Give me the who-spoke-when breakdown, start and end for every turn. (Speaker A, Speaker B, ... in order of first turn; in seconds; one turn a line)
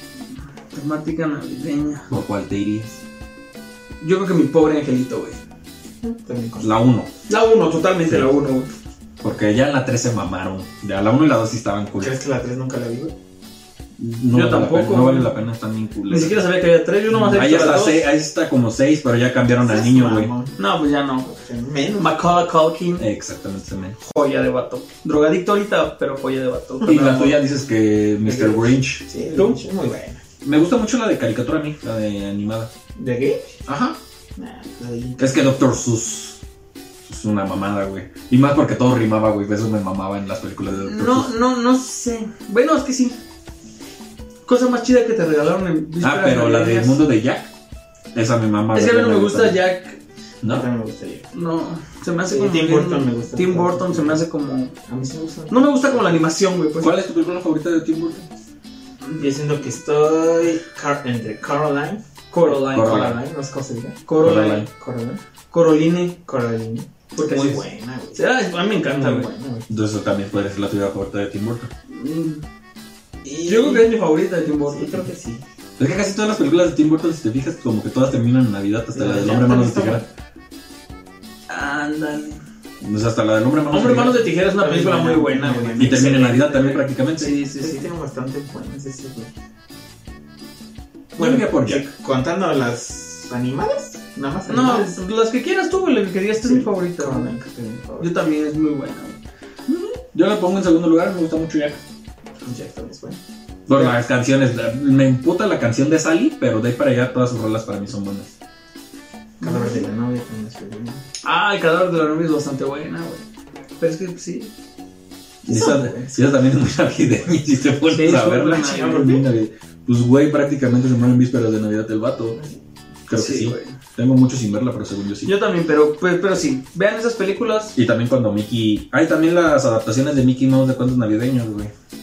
Speaker A: 0.7-2.1
Speaker B: 2.1-3.0
Speaker A: 4.0-5.4
Speaker C: 6.0-6.7
Speaker B: 6.6-7.1
Speaker A: 7.3-8.7
Speaker B: 9.2-12.1
Speaker C: 12.0-13.1
Speaker B: 14.0-16.4
Speaker A: 14.3-15.3
Speaker A: 16.1-18.0
Speaker C: 17.1-17.6
Speaker B: 17.3-20.3
Speaker C: 19.6-20.6
Speaker A: 20.6-21.4
Speaker C: 21.3-22.1
Speaker A: 22.0-23.1
Speaker B: 23.0-24.0
Speaker A: 24.0-27.2
Speaker C: 26.8-27.3
Speaker B: 26.8-29.0
Speaker C: 28.2-30.2
Speaker B: 30.4-32.7
Speaker C: 33.0-33.5
Speaker B: 33.7-34.0
Speaker C: 34.4-35.5
Speaker B: 35.2-36.4
Speaker B: 37.0-41.3
Speaker A: 40.8-43.2
Speaker A: 44.4-47.0
Speaker B: 46.0-47.5
Speaker B: 48.1-49.6
Speaker A: 48.7-50.0
Speaker C: 50.5-51.2
Speaker A: 51.3-54.7
Speaker C: 52.3-54.2
Speaker C: 54.9-56.2
Speaker A: 55.5-56.9
Speaker B: 56.8-58.3
Speaker C: 59.2-62.0
Speaker A: 62.3-63.1
Speaker B: 62.5-63.2
Speaker C: 62.7-64.0
Speaker A: 64.0-64.7
Speaker B: 64.2-64.7
Speaker C: 64.6-65.2
Speaker A: 65.5-66.2
Speaker C: 66.2-68.2
Speaker A: 67.1-67.6
Speaker A: 68.1-69.3
Speaker C: 68.8-69.7
Speaker B: 69.7-71.7
Speaker A: 71.9-72.4
Speaker C: 73.2-73.9
Speaker A: 73.4-75.0
Speaker C: 74.7-75.4
Speaker B: 75.8-80.0
Speaker C: 78.9-80.0
Speaker A: 81.5-82.4
Speaker B: 82.8-84.3
Speaker A: 83.7-87.9
Speaker C: 84.5-86.2
Speaker B: 85.8-87.3
Speaker C: 87.6-89.3
Speaker C: 91.2-95.0
Speaker B: 91.2-91.8
Speaker A: 94.5-97.3
Speaker C: 96.4-98.1
Speaker A: 98.0-99.2
Speaker B: 99.7-101.8
Speaker C: 102.4-103.2
Speaker B: 103.7-108.3
Speaker A: 109.4-109.9
Speaker C: 109.4-111.0
Speaker A: 111.2-113.2
Speaker A: 113.8-114.5
Speaker B: 115.4-122.4
Speaker C: 115.5-116.2
Speaker A: 117.9-119.1
Speaker C: 118.5-119.2
Speaker B: 123.1-125.3
Speaker A: 123.1-123.7
Speaker A: 125.2-127.7
Speaker B: 127.7-131.7